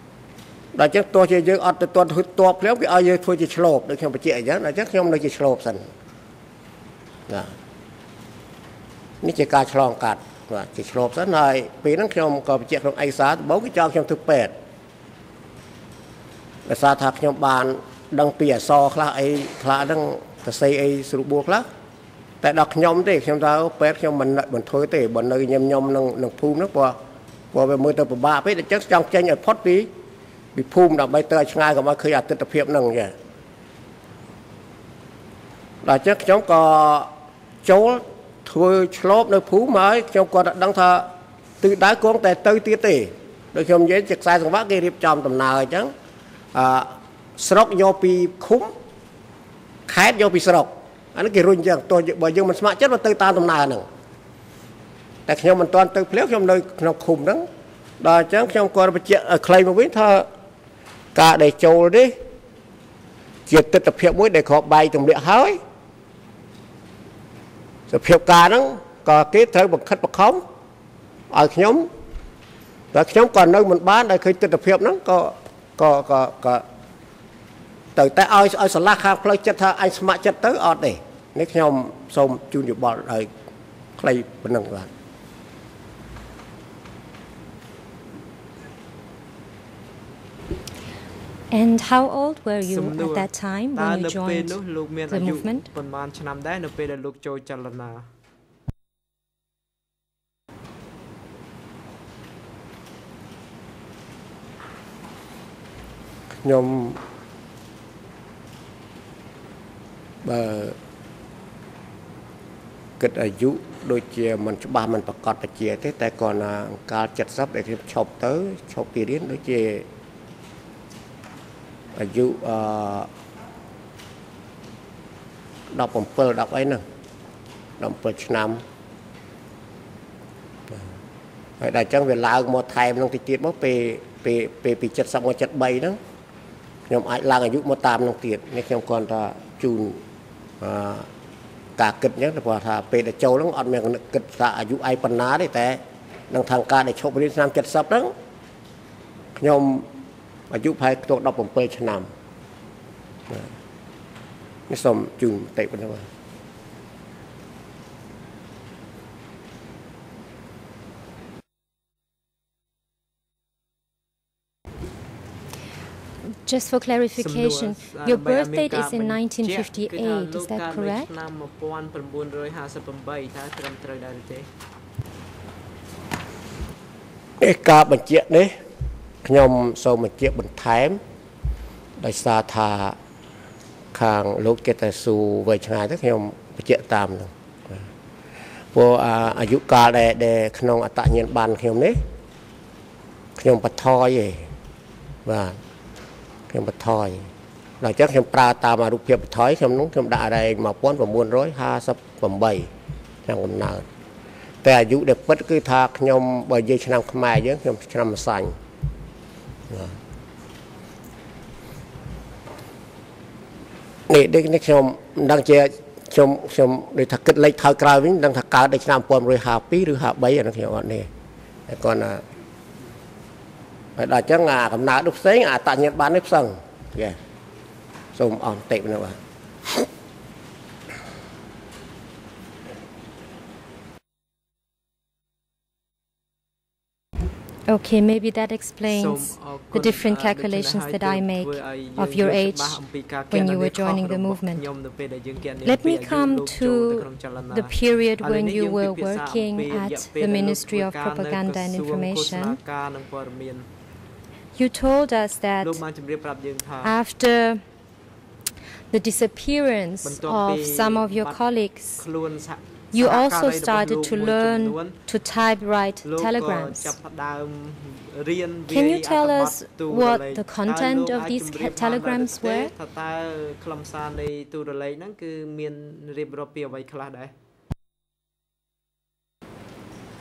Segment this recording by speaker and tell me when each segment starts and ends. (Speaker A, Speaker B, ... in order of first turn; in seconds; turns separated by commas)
Speaker A: 0.7-5.9, Speaker A: 7.3-7.5, Speaker A: 9.2-14.5, Speaker A: 16.6-21.6, Speaker A: 22.4-26.9, Speaker A: 27.5-29.9, Speaker A: 30.5-33.1, Speaker A: 35.8-37.1, Speaker A: 37.6-45.9, Speaker A: 46.5-48.7, Speaker A: 49.9-53.9, Speaker A: 55.3-57.5, Speaker A: 58.0-60.3, Speaker A: 61.1-62.1, Speaker A: 63.5-65.6, Speaker A: 67.9-70.4, Speaker A: 71.3-71.9, Speaker A: 72.9-76.6, Speaker A: 78.0-83.3, Speaker A: 84.0-84.9, Speaker B: 91.5-94.5, Speaker C: 92.6-98.1, Speaker B: 95.1-95.7, Speaker A: 106.4-107.0, Speaker A: 110.2-110.8, Speaker A: 113.0-119.8, Speaker A: 121.9-123.1, Speaker A: 125.7-126.8, Speaker A: 127.8-128.6, Speaker A: 131.6-136.0, Speaker A: 136.9-140.0, Speaker A: 140.6-141.1, Speaker A: 141.8-148.1, Speaker A: 149.4-149.9, Speaker A: 150.5-152.1, Speaker A: 154.7-156.1, Speaker B: 166.4-171.1, Speaker C: 167.2-174.5, Speaker A: 177.4-178.5, Speaker A: 179.2-181.0, Speaker A: 182.0-183.0, Speaker A: 183.9-187.8, Speaker A: 188.7-192.0, Speaker A: 193.4-194.5, Speaker A: 195.2-195.6, Speaker A: 196.5-197.3, Speaker A: 197.8-202.7, Speaker A: 203.2-203.8, Speaker A: 204.6-208.6, Speaker A: 209.7-209.9, Speaker A: 214.1-221.1, Speaker A: 221.7-222.2, Speaker A: 224.0-227.2, Speaker A: 228.1-229.2, Speaker B: 237.7-242.8, Speaker C: 238.8-253.7, Speaker B: 243.3-244.6, Speaker B: 245.6-252.6, Speaker B: 254.6-255.8, Speaker C: 255.6-256.9, Speaker B: 256.8-257.6, Speaker B: 258.9-262.0, Speaker C: 260.0-261.4, Speaker C: 262.0-265.0, Speaker B: 262.9-266.9, Speaker C: 266.0-277.3, Speaker B: 268.7-272.7